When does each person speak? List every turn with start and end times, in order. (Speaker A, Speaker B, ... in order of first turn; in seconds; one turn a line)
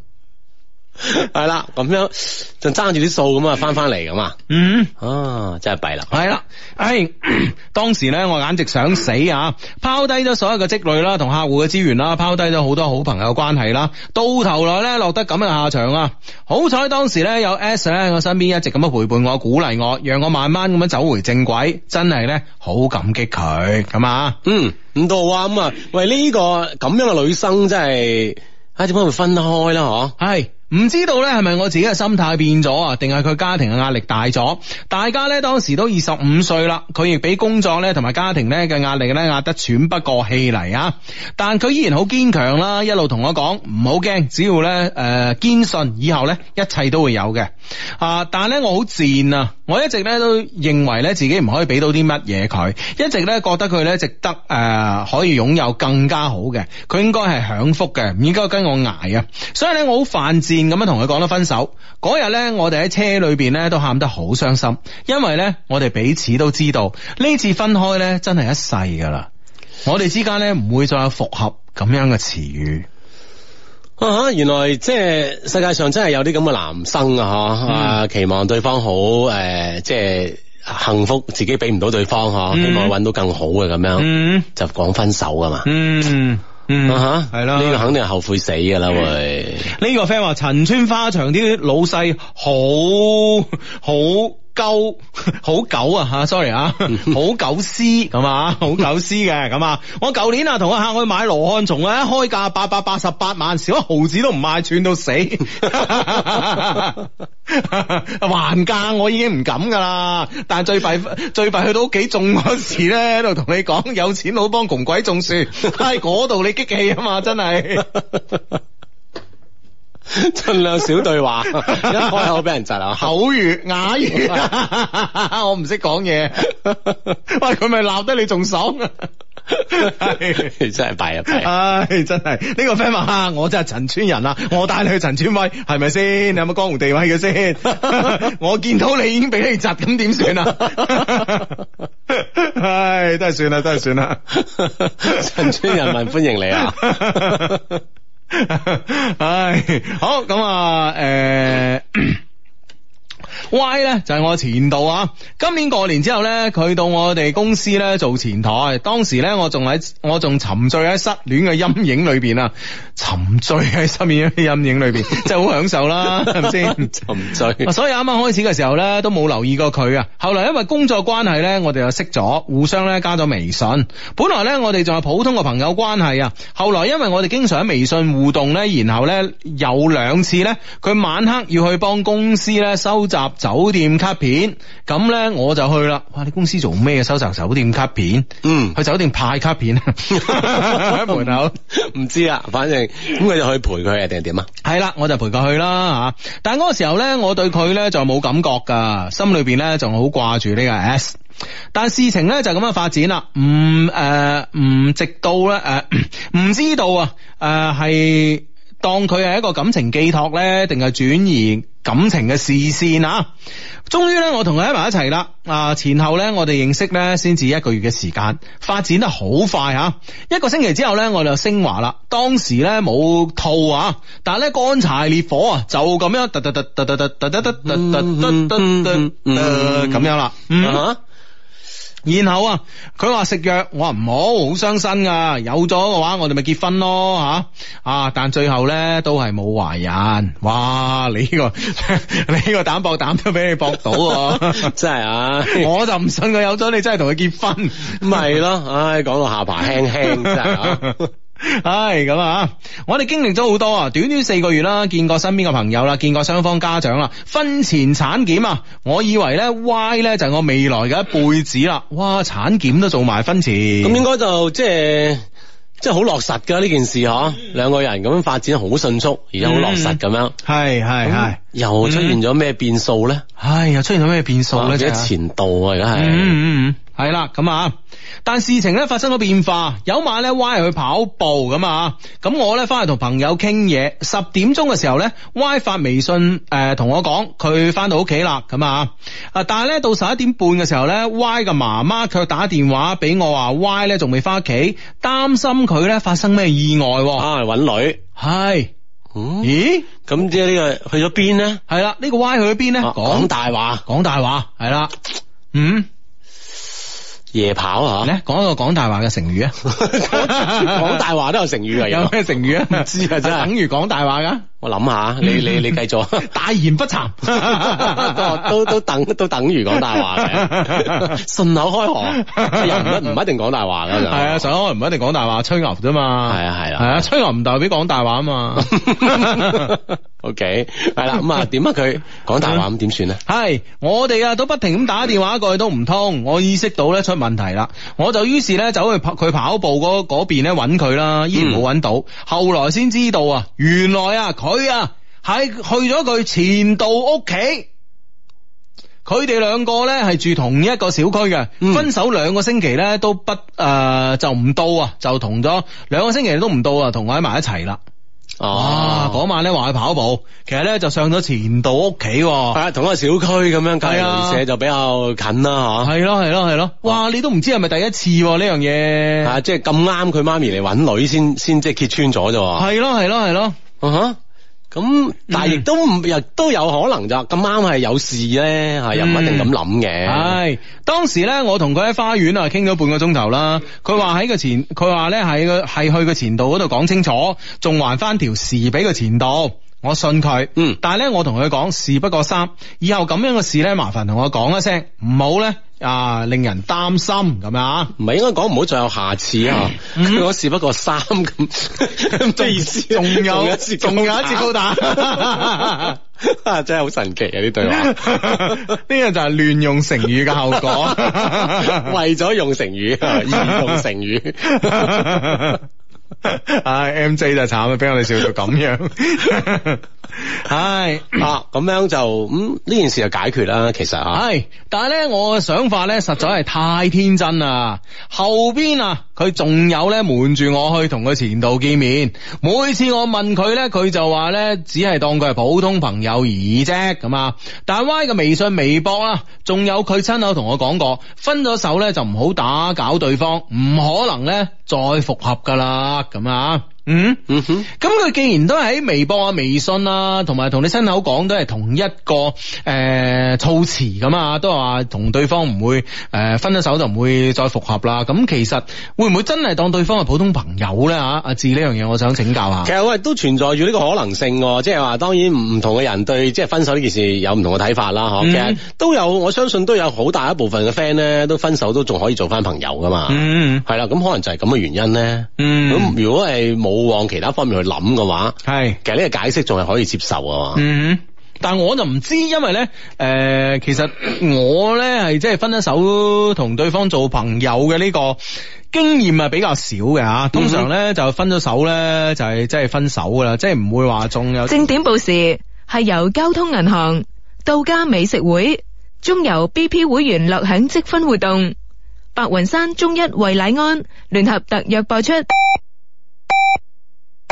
Speaker A: 1.0-4.3
Speaker B: 4.5-4.9
Speaker A: 5.0-6.2
Speaker B: 6.1-24.4
Speaker A: 24.4-30.1
Speaker B: 30.2-69.3
Speaker B: 69.8-72.8
Speaker A: 74.0-85.7
Speaker B: 77.7-78.0
Speaker B: 82.5-82.9
Speaker B: 84.0-84.5
Speaker B: 85.6-87.9
Speaker A: 86.9-89.7
Speaker B: 89.6-118.0
Speaker A: 120.1-123.1
Speaker B: 121.5-122.2
Speaker B: 122.9-129.1
Speaker B: 129.7-130.5
Speaker A: 129.7-131.5
Speaker B: 131.3-141.6
Speaker B: 142.1-144.4
Speaker A: 144.3-147.6
Speaker B: 145.0-145.9
Speaker B: 146.6-147.6
Speaker B: 148.3-152.2
Speaker B: 153.5-167.0
Speaker A: 166.2-167.7
Speaker B: 167.6-191.5
Speaker A: 188.4-188.8
Speaker A: 190.2-194.5
Speaker B: 194.6-201.2
Speaker B: 201.7-213.3
Speaker B: 213.9-230.8
Speaker A: 227.6-231.0
Speaker B: 232.0-244.7
Speaker A: 244.2-245.7
Speaker B: 245.4-248.2
Speaker A: 247.9-250.9
Speaker B: 250.1-264.0
Speaker A: 263.8-265.3
Speaker A: 265.8-270.3
Speaker B: 269.4-272.2
Speaker A: 271.0-273.2
Speaker B: 273.4-275.1
Speaker A: 274.5-276.4
Speaker B: 275.9-277.7
Speaker B: 278.2-297.3
Speaker A: 297.2-298.0
Speaker B: 298.2-298.7
Speaker A: 299.1-301.6
Speaker B: 299.4-299.9
Speaker B: 301.7-303.3
Speaker A: 302.8-303.8
Speaker B: 303.8-304.9
Speaker B: 305.5-305.9
Speaker A: 307.3-308.1
Speaker B: 308.0-311.0
Speaker A: 309.6-313.5
Speaker B: 311.8-314.5
Speaker A: 314.6-316.3
Speaker B: 315.2-318.7
Speaker A: 317.4-324.5
Speaker B: 319.8-321.2
Speaker B: 322.1-323.1
Speaker B: 324.0-329.8
Speaker A: 326.3-327.1
Speaker A: 328.6-333.2
Speaker B: 333.2-347.6
Speaker A: 341.3-341.6
Speaker B: 349.0-357.8
Speaker A: 351.6-351.9
Speaker A: 358.4-359.2
Speaker B: 358.5-362.6
Speaker A: 362.5-365.9
Speaker B: 363.8-364.4
Speaker B: 365.8-369.4
Speaker A: 369.2-372.7
Speaker B: 372.6-373.6
Speaker A: 373.8-374.2
Speaker A: 374.7-380.4
Speaker B: 375.3-375.6
Speaker B: 378.9-379.5
Speaker B: 380.0-397.9
Speaker A: 398.0-408.7
Speaker B: 399.9-400.2
Speaker B: 402.2-406.0
Speaker B: 407.6-411.9
Speaker A: 410.3-415.4
Speaker B: 413.1-413.8
Speaker B: 414.5-415.6
Speaker B: 416.2-421.3
Speaker A: 421.1-424.2
Speaker B: 424.1-462.7
Speaker A: 447.3-447.6
Speaker A: 462.6-480.6
Speaker B: 468.2-468.6
Speaker B: 473.1-473.6
Speaker B: 475.4-475.9
Speaker B: 478.4-478.8
Speaker B: 480.5-488.2
Speaker B: 488.7-494.7
Speaker A: 490.3-490.6
Speaker C: 494.5-501.5
Speaker C: 502.1-505.2